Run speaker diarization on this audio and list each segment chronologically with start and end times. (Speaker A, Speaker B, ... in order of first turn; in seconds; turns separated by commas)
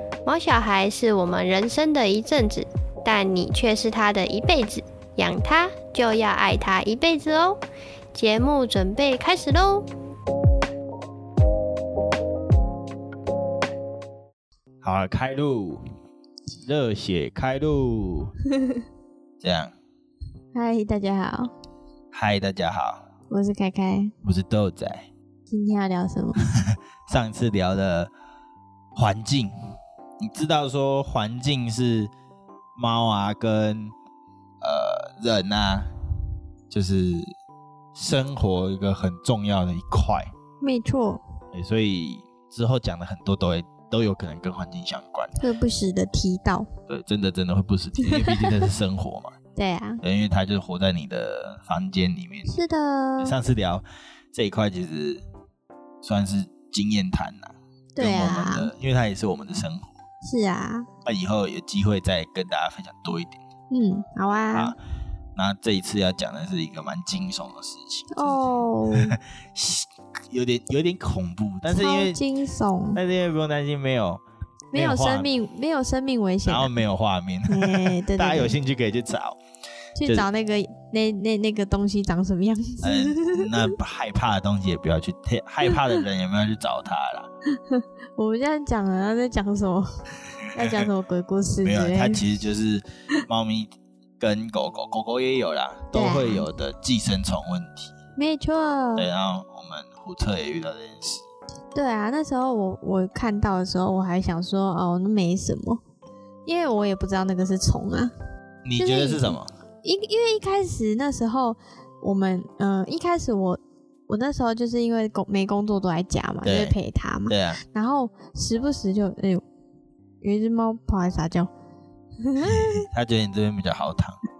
Speaker A: 0.2-7.6, Speaker A: 8.1-9.9, Speaker B: 14.8-15.8, Speaker B: 16.6-18.3, Speaker B: 19.4-19.7, Speaker C: 20.5-21.5, Speaker B: 22.1-23.0, Speaker C: 23.3-24.1, Speaker B: 24.2-25.1, Speaker C: 25.5-26.4, Speaker B: 26.5-28.1, Speaker B: 28.9-29.5, Speaker B: 30.2-32.1, Speaker B: 32.8-33.9, Speaker B: 34.6-35.9, Speaker B: 36.7-37.3, Speaker B: 37.9-40.3, Speaker C: 40.6-41.2, Speaker B: 41.5-45.4, Speaker C: 45.4-46.7, Speaker B: 46.9-49.3, Speaker C: 48.0-48.6, Speaker C: 49.5-50.0, Speaker B: 50.0-52.5, Speaker C: 52.5-53.4, Speaker B: 53.2-55.2, Speaker B: 56.0-59.9, Speaker C: 58.0-58.7, Speaker C: 60.2-60.9, Speaker B: 61.0-63.4, Speaker C: 63.7-64.7, Speaker B: 65.3-72.2, Speaker C: 68.1-69.2, Speaker C: 71.7-73.0, Speaker B: 72.9-74.2, Speaker C: 74.7-76.7, Speaker B: 74.7-75.3, Speaker B: 76.4-79.4, Speaker C: 77.5-78.5, Speaker C: 80.0-83.7, Speaker B: 82.8-87.3, Speaker C: 87.7-90.0, Speaker C: 90.5-92.2, Speaker B: 90.6-90.8, Speaker B: 91.6-97.9, Speaker C: 95.9-96.5, Speaker C: 98.2-99.1, Speaker B: 99.0-101.2, Speaker C: 101.7-105.8, Speaker C: 106.5-108.1, Speaker B: 108.6-109.5, Speaker C: 108.8-119.4, Speaker B: 116.4-116.8, Speaker B: 117.3-117.6, Speaker C: 120.2-121.5, Speaker C: 122.2-122.8, Speaker B: 122.4-124.2